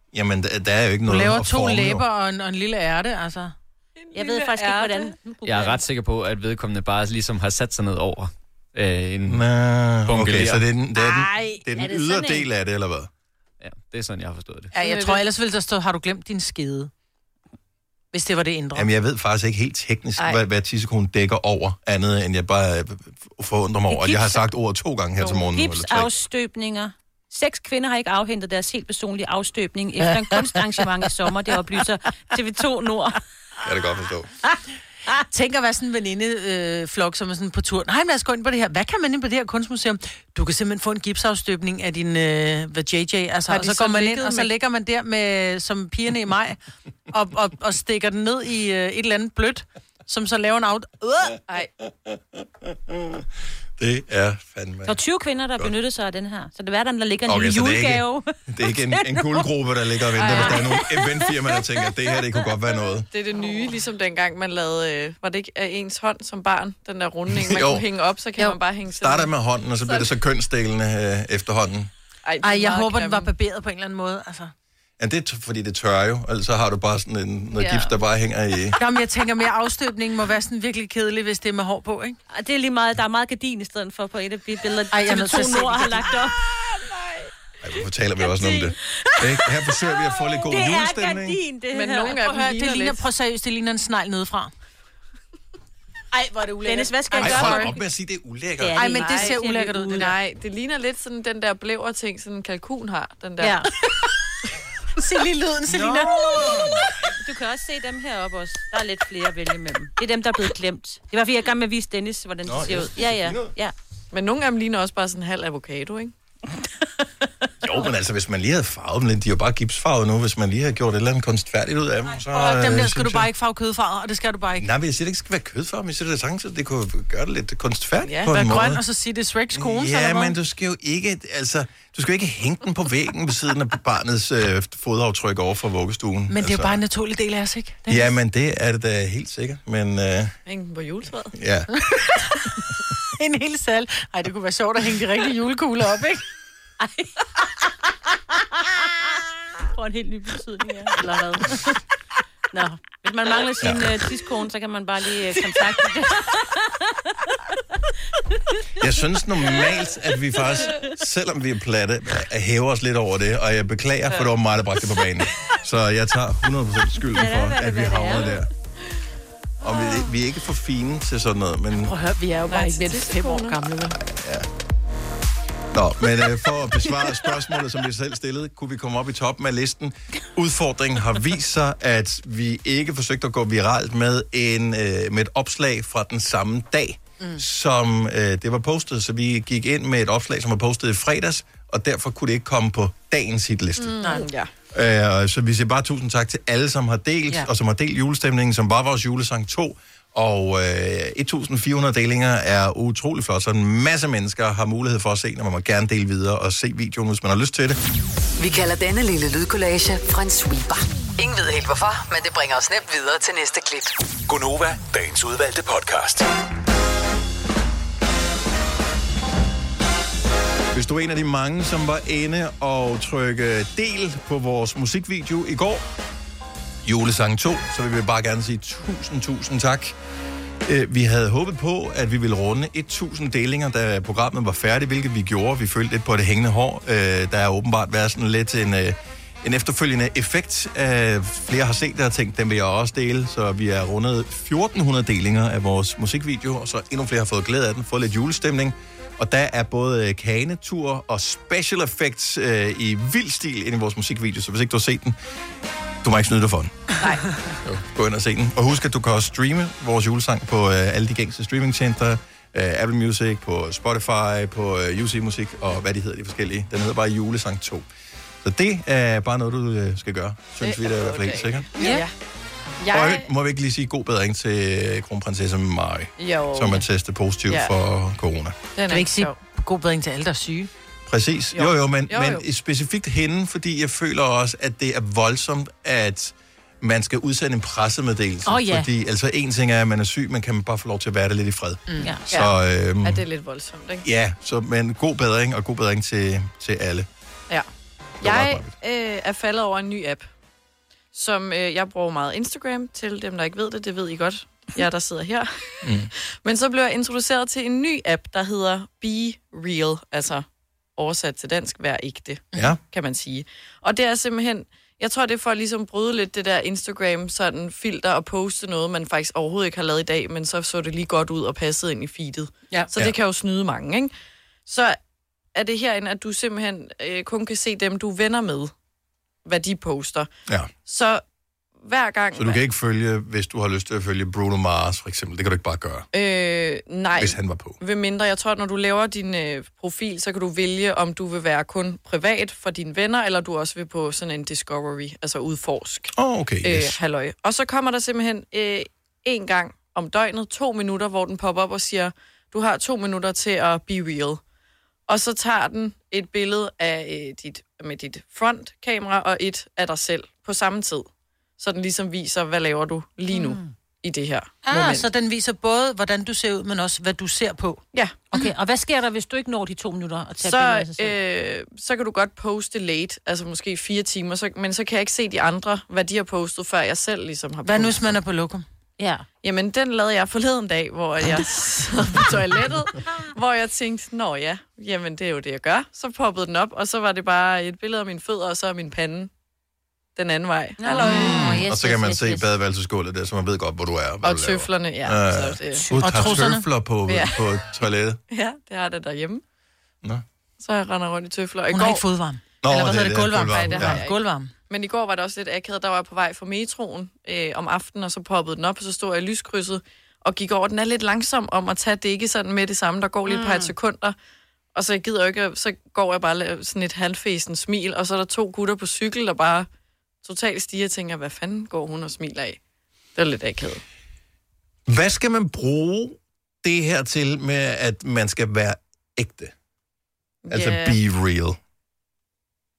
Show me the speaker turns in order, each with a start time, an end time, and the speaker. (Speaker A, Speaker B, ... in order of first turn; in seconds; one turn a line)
Speaker A: 0.1-2.0
Speaker B: 1.1-3.5
Speaker C: 4.0-5.0
Speaker D: 4.1-5.8
Speaker E: 5.4-9.5
Speaker A: 9.3-13.1
Speaker E: 10.1-10.7
Speaker D: 11.0-12.5
Speaker E: 13.6-14.7
Speaker B: 14.7-16.9
Speaker C: 14.8-15.2
Speaker B: 18.1-18.9
Speaker A: 18.8-26.1
Speaker D: 23.9-24.4
Speaker D: 25.3-33.2
Speaker A: 33.6-34.3
Speaker B: 35.2-46.6
Speaker C: 43.5-44.5
Speaker B: 47.1-51.4
Speaker A: 52.9-53.2
Speaker A: 53.8-55.0
Speaker D: 54.9-59.5
Speaker A: 57.3-63.1
Speaker C: 60.2-60.7
Speaker D: 60.2-62.5
Speaker C: 63.1-70.1
Speaker A: 67.3-67.9
Speaker A: 68.9-71.9
Speaker C: 72.2-73.3
Speaker B: 72.4-74.5
Speaker A: 75.0-78.8
Speaker B: 78.8-82.2
Speaker D: 82.3-86.4
Speaker B: 84.9-86.2
Speaker A: 87.6-91.4
Speaker D: 88.2-92.2
Speaker C: 91.7-93.0
Speaker B: 92.0-94.5
Speaker B: 96.1-97.7
Speaker D: 96.6-97.8
Speaker A: 97.2-99.0
Speaker D: 98.6-100.1
Speaker B: 98.8-100.2
Speaker C: 99.0-99.4
Speaker C: 99.9-103.6
Speaker D: 103.4-103.7
Speaker B: 105.0-106.6
Speaker A: 105.7-106.9
Speaker D: 107.0-113.7
Speaker A: 112.5-113.5
Speaker C: 114.1-116.1
Speaker A: 117.6-123.3
Speaker B: 122.3-124.7
Speaker A: 124.6-128.8
Speaker C: 128.0-128.4
Speaker B: 128.3-130.4
Speaker A: 129.5-136.8
Speaker B: 136.3-138.1
Speaker A: 137.9-140.4
Speaker C: 140.5-141.3
Speaker A: 141.3-141.8
Speaker B: 143.2-146.2
Speaker D: 146.8-147.2
Speaker D: 148.4-149.1
Speaker D: 149.7-151.8
Speaker D: 152.5-157.3
Speaker A: 153.6-153.9
Speaker A: 158.8-168.5
Speaker D: 160.3-160.8
Speaker D: 167.1-168.4
Speaker A: 169.6-171.9
Speaker B: 171.8-174.0
Speaker C: 172.5-173.6
Speaker A: 174.1-174.5
Speaker A: 175.7-194.2
Speaker C: 193.8-194.5
Speaker B: 194.0-194.3
Speaker A: 194.7-207.8
Speaker F: 208.4-213.9
Speaker G: 214.3-216.3
Speaker A: 220.7-225.8
Speaker A: 226.8-230.0
Speaker A: 230.6-255.2
Speaker A: 256.0-256.9
Speaker C: 257.0-257.3
Speaker A: 257.6-267.9
Speaker A: 268.4-272.1
Speaker C: 270.6-272.1
Speaker B: 271.8-272.1
Speaker C: 272.8-273.3
Speaker A: 272.9-278.6
Speaker C: 276.2-276.8
Speaker C: 277.5-277.7
Speaker C: 278.8-279.4
Speaker B: 278.9-280.7
Speaker A: 281.1-293.2
Speaker C: 281.5-282.4
Speaker D: 288.4-288.9
Speaker B: 291.9-292.1
Speaker D: 292.0-292.3
Speaker C: 292.3-294.1
Speaker A: 294.0-297.1
Speaker A: 298.2-298.7
Speaker C: 298.2-300.3
Speaker C: 301.1-305.9
Speaker A: 305.8-306.1
Speaker C: 306.4-310.4
Speaker C: 311.0-324.1
Speaker A: 312.5-312.8
Speaker C: 324.7-325.0
Speaker C: 325.5-328.7
Speaker C: 329.4-330.3
Speaker A: 330.5-330.7
Speaker C: 330.8-331.2
Speaker C: 331.8-332.6
Speaker A: 332.4-336.1
Speaker C: 336.1-354.4
Speaker A: 337.2-337.8
Speaker A: 346.1-347.0
Speaker C: 355.1-361.1
Speaker C: 361.6-365.1
Speaker D: 363.3-363.6
Speaker B: 364.6-367.8
Speaker C: 367.9-368.2
Speaker D: 368.3-371.2
Speaker C: 370.4-378.1
Speaker B: 377.6-378.6
Speaker D: 379.0-379.3
Speaker C: 379.4-389.3
Speaker C: 390.2-391.5
Speaker D: 390.8-392.5
Speaker A: 391.0-398.2
Speaker C: 394.2-395.9
Speaker B: 395.9-396.7
Speaker C: 397.1-397.4
Speaker C: 398.3-399.4
Speaker C: 400.6-402.1
Speaker B: 401.7-404.5
Speaker A: 402.6-404.0
Speaker C: 403.5-414.1
Speaker D: 413.3-413.7
Speaker C: 414.7-419.7
Speaker C: 420.2-422.6
Speaker C: 423.1-423.8
Speaker A: 424.9-429.5
Speaker C: 430.4-431.0
Speaker A: 430.5-431.6